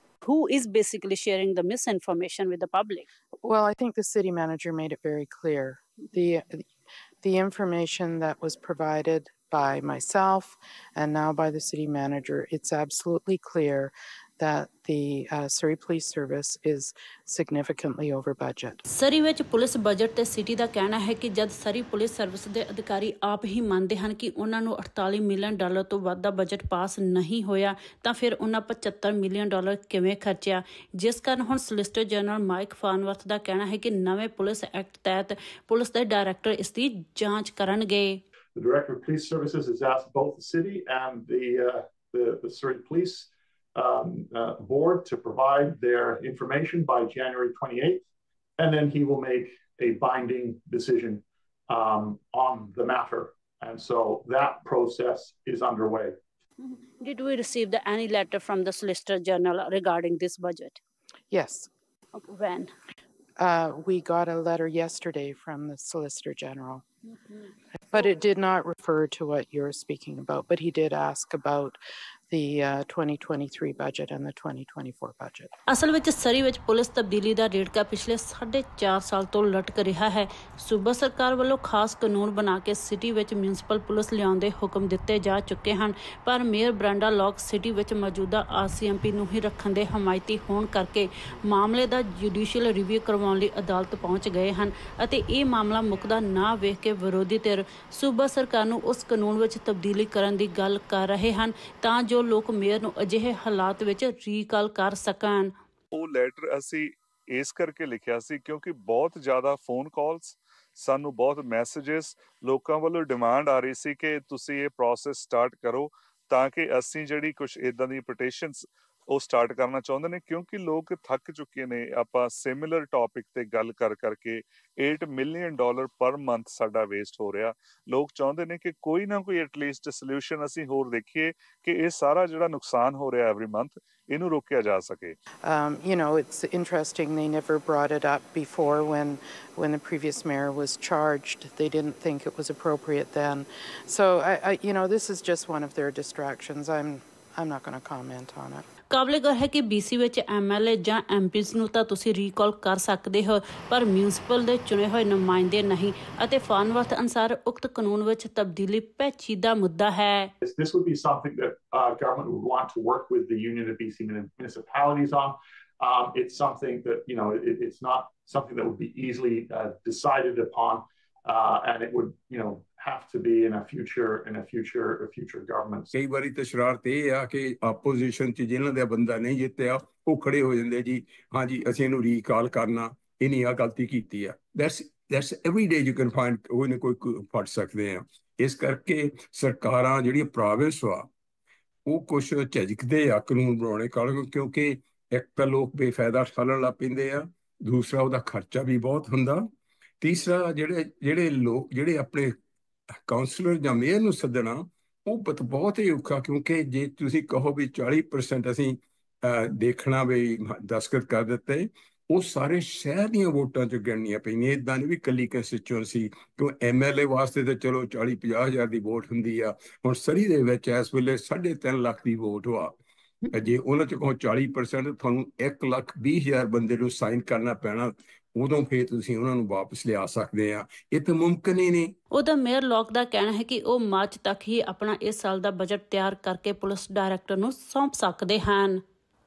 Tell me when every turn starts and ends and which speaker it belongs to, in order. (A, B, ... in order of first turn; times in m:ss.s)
0:00.2-0:03.1 A
0:03.4-0:06.6 B
0:07.2-0:18.8 B
0:18.9-0:38.2 A
0:38.6-0:48.0 C
0:48.6-0:56.2 C
0:56.6-1:00.8 A
1:01.3-1:01.7 B
1:02.2-1:02.7 A
1:03.4-1:06.8 B
1:07.9-1:11.8 B
1:12.3-1:15.5 B
1:15.7-1:45.5 A
1:45.9-2:15.2 D
2:15.4-2:28.7 B
2:28.9-2:40.3 A
2:40.4-2:55.9 C
2:55.9-3:11.1 E
3:11.9-3:19.4 E
3:20.0-3:22.3 E
3:23.1-3:42.8 E
3:43.3-3:52.0 E
3:52.1-3:58.8 A